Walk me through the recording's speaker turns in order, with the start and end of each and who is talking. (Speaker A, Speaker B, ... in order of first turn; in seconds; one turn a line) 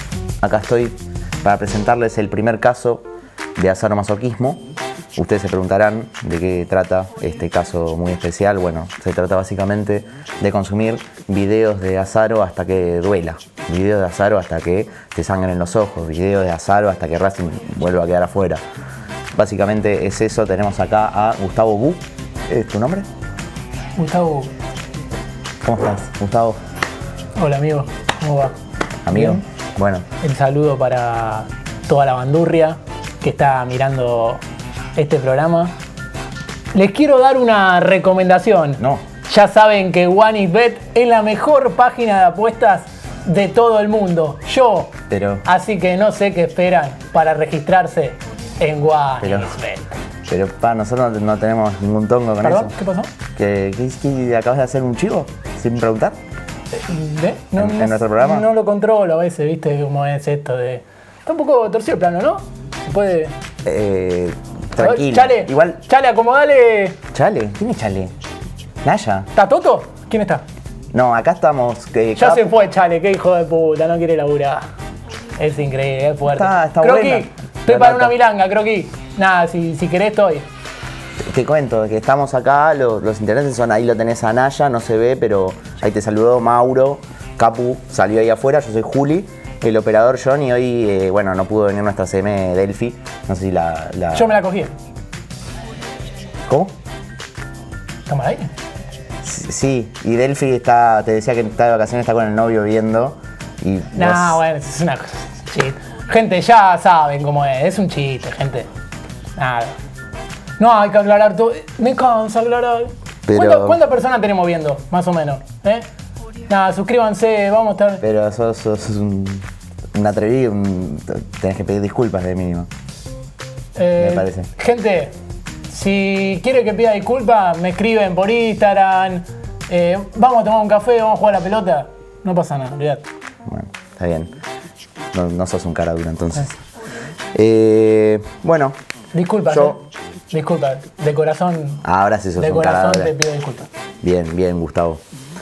Speaker A: 0.4-4.6
Speaker A: 5.2-18.6
Speaker A: 19.4-23.1
Speaker B: 24.0-24.5
Speaker A: 25.6-26.6
Speaker B: 27.4-28.6
Speaker A: 29.1-30.1
Speaker B: 29.1-29.4
Speaker B: 30.2-34.4
Speaker B: 35.0-35.7
Speaker B: 36.7-50.0
Speaker A: 38.8-39.1
Speaker A: 45.1-45.5
Speaker A: 49.2-49.6
Speaker A: 50.3-52.7
Speaker B: 52.4-53.1
Speaker A: 53.4-56.2
Speaker B: 56.7-63.4
Speaker A: 57.6-58.5
Speaker A: 63.6-65.8
Speaker B: 64.8-67.0
Speaker A: 67.1-68.1
Speaker A: 68.8-69.3
Speaker B: 69.3-70.4
Speaker A: 70.9-72.5
Speaker B: 72.2-74.6
Speaker B: 75.4-80.5
Speaker A: 76.3-78.2
Speaker A: 81.3-94.4
Speaker B: 94.1-94.8
Speaker A: 96.5-96.7
Speaker B: 98.1-98.5
Speaker A: 99.2-104.4
Speaker B: 103.9-108.7
Speaker B: 109.4-109.8
Speaker B: 110.6-115.9
Speaker A: 113.3-113.8
Speaker B: 116.5-118.0
Speaker A: 118.0-122.7
Speaker B: 123.8-125.1
Speaker A: 124.0-124.5
Speaker B: 125.7-133.1
Speaker A: 133.5-134.3
Speaker A: 135.1-136.6
Speaker A: 137.3-138.8
Speaker B: 139.1-141.8
Speaker A: 139.5-139.8
Speaker A: 141.8-143.1
Speaker B: 142.4-143.7
Speaker A: 144.0-145.0